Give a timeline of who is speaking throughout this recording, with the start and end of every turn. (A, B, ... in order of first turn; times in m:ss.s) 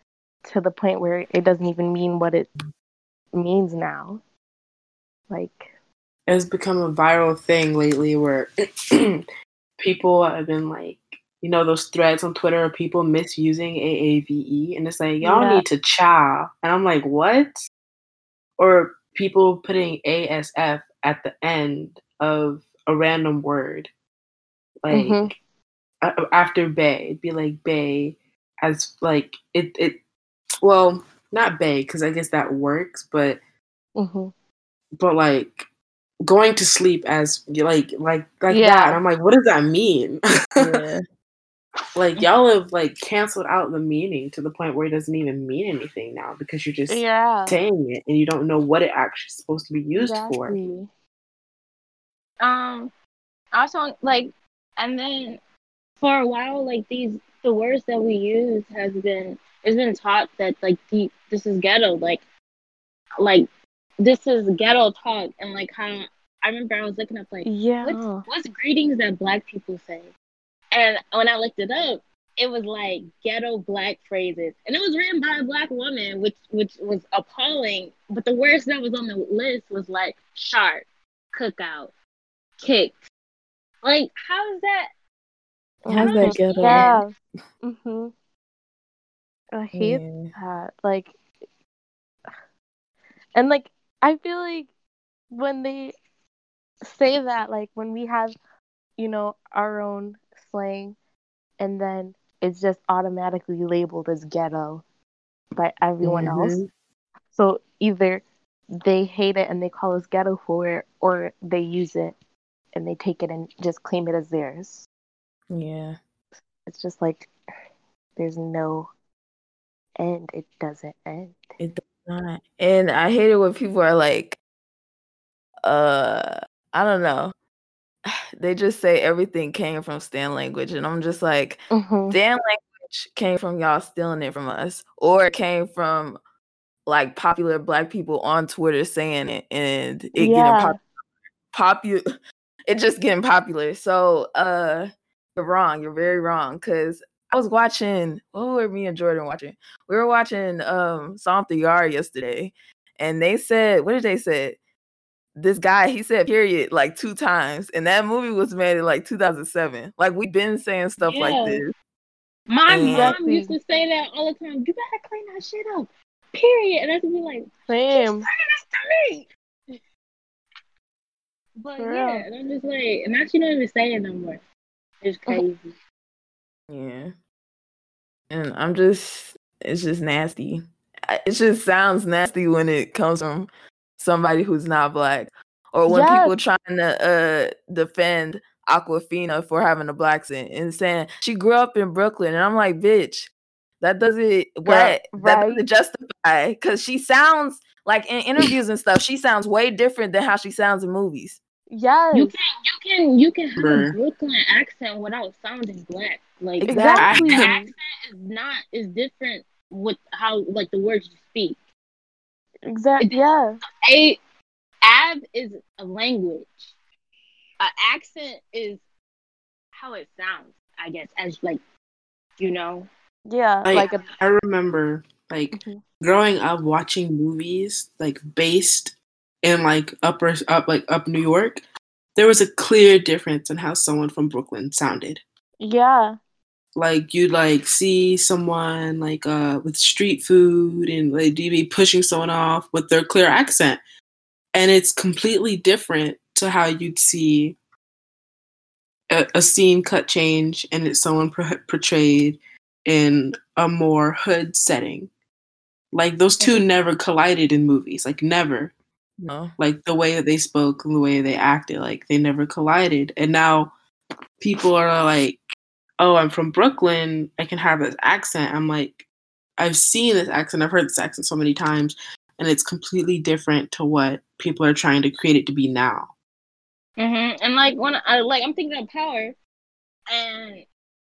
0:00.4-0:02.5 A
0:03.3-0:04.2 A
0:05.3-0:05.7 A
0:06.3-0:09.2 B
0:09.8-0:17.6 B
0:15.2-0:15.6 A
0:18.6-0:23.9 B
0:24.8-0:25.3 B
0:24.9-0:25.3 A
0:26.0-0:30.0 B
0:30.6-0:33.4 B
0:34.0-0:34.3 A
0:35.0-0:35.6 B
0:36.2-0:40.6 B
0:38.5-0:39.0 A
0:40.6-0:41.0 C
0:42.0-0:50.6 B
0:46.9-0:47.6 A
0:49.9-0:50.9 A
0:52.4-0:52.9 D
0:53.5-0:55.4 D
0:56.0-1:02.2 D
1:03.2-1:03.4 D
1:04.0-1:10.1 D
1:07.4-1:08.2 A
1:10.7-1:21.9 D
1:22.6-1:23.1 D
1:23.8-1:24.9 D
1:25.8-1:28.1 A
1:25.9-1:27.0 C
1:25.9-1:27.0 D
1:29.5-1:31.2 A
1:29.7-1:30.3 C
1:33.3-1:34.7 A
1:35.3-1:35.9 A
1:36.8-1:38.4 A
1:39.0-1:41.0 A
1:41.6-1:44.8 A
1:45.6-1:46.6 A
1:46.0-1:46.7 B
1:47.3-1:48.2 A
1:48.8-1:52.2 A
1:52.7-1:54.9 A
1:55.5-1:56.0 C
1:56.6-1:57.3 A
1:58.2-1:58.9 A
2:00.0-2:01.4 A
2:01.6-2:04.4 C
2:05.6-2:07.3 C
2:08.0-2:16.2 C
2:11.7-2:12.2 A
2:16.8-2:20.8 C
2:20.2-2:20.8 A
2:21.5-2:22.0 C
2:22.7-2:34.6 C
2:35.4-2:41.7 C
2:41.0-2:41.6 D
2:42.5-2:49.3 D
2:42.7-2:43.2 C
2:42.8-2:43.5 A
2:47.7-2:48.2 A
2:51.6-2:54.4 D
2:51.8-2:52.2 A
2:55.0-2:55.8 D
2:56.7-2:57.1 C
2:58.3-3:21.4 C
3:05.9-3:06.4 A
3:14.6-3:15.6 A
3:21.7-3:22.3 A
3:22.1-3:31.6 D
3:23.6-3:24.0 B
3:26.6-3:27.7 A
3:26.7-3:27.3 C
3:26.9-3:27.5 B
3:32.6-3:33.6 A
3:33.8-3:34.2 D
3:34.8-3:36.7 D
3:37.6-3:38.8 D
3:39.7-3:41.6 D
3:42.4-3:42.9 D
3:43.3-3:44.1 A
3:43.6-3:51.6 B
3:43.8-3:44.1 D
3:45.5-3:45.8 A
3:52.2-3:55.2 B
3:55.6-3:56.2 A
3:56.8-4:03.8 B
4:04.5-4:07.6 B
4:09.1-4:15.1 B
4:15.9-4:18.7 B
4:19.2-4:19.5 C
4:19.6-4:23.7 B
4:24.4-4:25.4 B
4:26.0-4:29.0 B
4:29.6-4:36.1 B
4:37.0-4:39.4 D
4:40.1-4:40.6 D